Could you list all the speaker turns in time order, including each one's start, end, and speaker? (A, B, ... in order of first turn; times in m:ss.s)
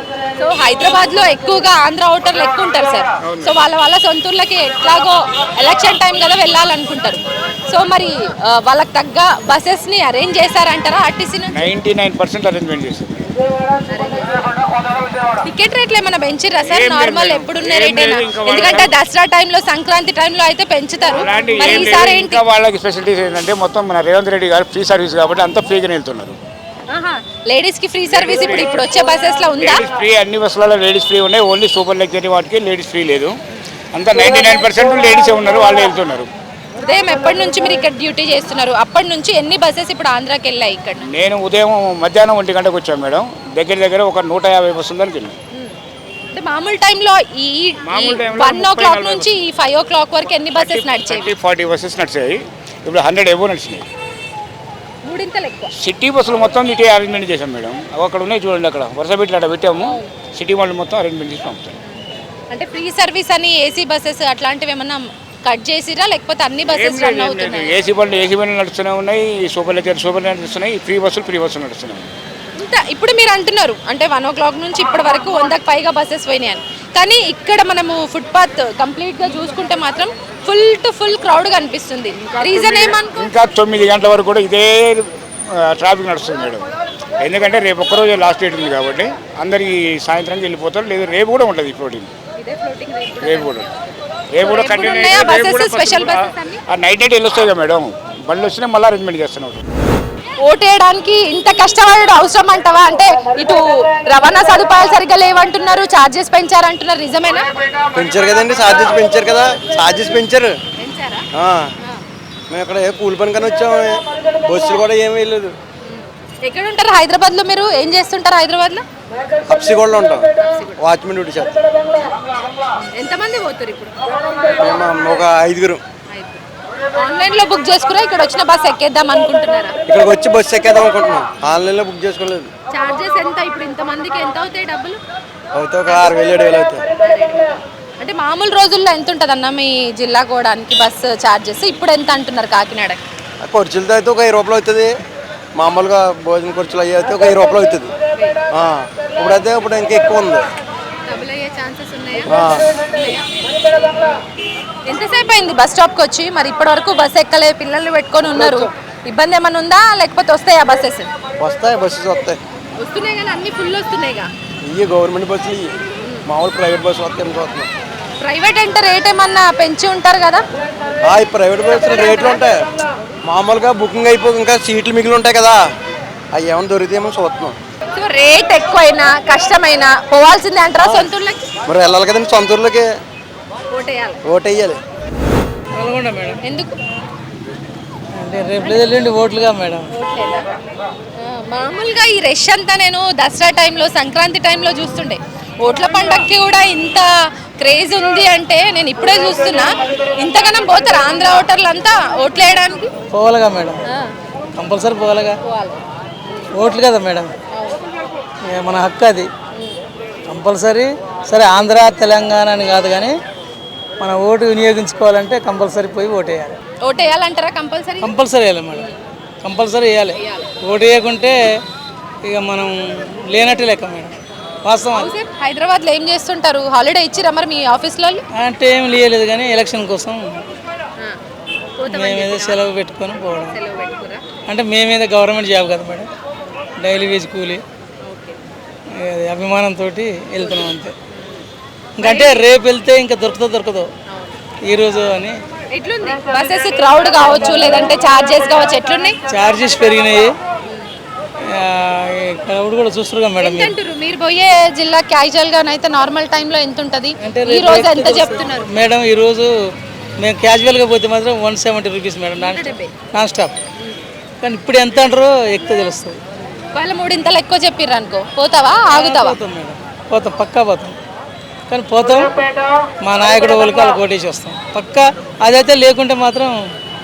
0:00.4-0:11.5 A
0:03.2-0:03.6 B
0:11.5-0:13.3 B
0:13.9-0:14.3 A
0:15.4-0:22.4 A
0:16.6-0:18.9 B
0:21.1-0:26.4 B
0:26.9-0:29.8 A
0:28.1-0:28.9 B
0:29.6-0:33.3 B
0:33.9-0:36.3 B
0:36.8-0:41.1 A
0:41.1-0:45.3 B
0:46.3-0:51.3 A
0:47.8-0:49.4 B
0:50.5-0:53.9 B
0:55.0-0:55.7 A
0:55.8-1:01.7 B
0:59.8-1:00.1 A
1:01.8-1:07.8 A
1:06.7-1:12.1 B
1:12.6-1:23.1 A
1:22.2-1:26.7 B
1:27.2-1:32.1 B
1:32.4-1:36.6 A
1:33.2-1:33.6 B
1:34.3-1:39.6 B
1:40.4-1:47.5 A
1:47.9-1:50.5 C
1:50.8-1:51.2 A
1:51.3-1:51.7 C
1:52.5-1:55.5 C
1:55.8-1:58.8 A
1:59.5-2:01.6 C
2:00.5-2:00.7 A
2:02.8-2:04.5 A
2:04.6-2:05.8 C
2:06.1-2:06.4 A
2:07.0-2:09.8 A
2:09.9-2:12.5 C
2:12.7-2:15.0 A
2:15.5-2:16.8 C
2:17.0-2:23.0 A
2:23.4-2:24.9 C
2:25.6-2:27.9 C
2:28.5-2:30.4 C
2:31.1-2:33.2 A
2:32.3-2:32.6 C
2:33.8-2:34.2 A
2:34.8-2:41.1 A
2:38.3-2:38.6 C
2:41.4-2:42.4 C
2:42.8-2:44.3 A
2:44.6-2:45.7 C
2:46.2-2:47.7 C
2:48.1-2:50.4 A
2:51.0-2:52.7 C
2:53.2-2:55.6 C
2:56.3-2:57.5 C
2:57.9-3:01.4 A
3:00.8-3:01.1 C
3:01.7-3:02.9 C
3:03.7-3:04.2 A
3:04.2-3:04.8 C
3:05.8-3:06.4 D
3:06.4-3:06.8 A
3:08.2-3:09.8 D
3:08.6-3:09.0 A
3:09.9-3:10.4 A
3:11.2-3:17.1 A
3:17.6-3:22.9 A
3:23.1-3:23.7 D
3:24.6-3:25.3 D
3:25.4-3:26.5 A
3:26.6-3:27.3 D
3:27.5-3:27.8 A
3:28.5-3:29.2 D
3:30.3-3:33.1 D
3:34.0-3:36.5 D
3:36.8-3:38.1 A
3:38.0-3:38.8 D
3:39.4-3:40.1 D
3:40.2-3:40.5 A
3:40.7-3:41.3 D
3:42.3-3:42.7 D
3:43.3-3:44.1 D
3:44.6-3:45.1 D
3:44.9-3:48.2 A
3:48.4-3:50.2 D
3:51.8-3:52.6 A
3:51.9-3:53.5 D
3:53.5-3:54.2 A
3:54.5-3:56.0 D
3:56.8-3:57.6 D
3:58.0-3:58.4 A
3:59.1-4:00.9 D
4:00.4-4:01.4 A
4:02.0-4:02.5 A
4:02.0-4:03.8 D
4:04.1-4:04.4 A
4:04.7-4:05.3 D
4:05.7-4:09.2 A
4:09.3-4:10.3 D
4:12.6-4:13.7 D
4:13.4-4:18.7 A
4:17.2-4:19.5 D
4:20.2-4:23.5 D
4:22.4-4:22.9 A
4:24.4-4:26.2 D
4:26.7-4:29.4 A
4:28.9-4:30.9 D
4:31.7-4:32.3 D
4:33.0-4:36.5 D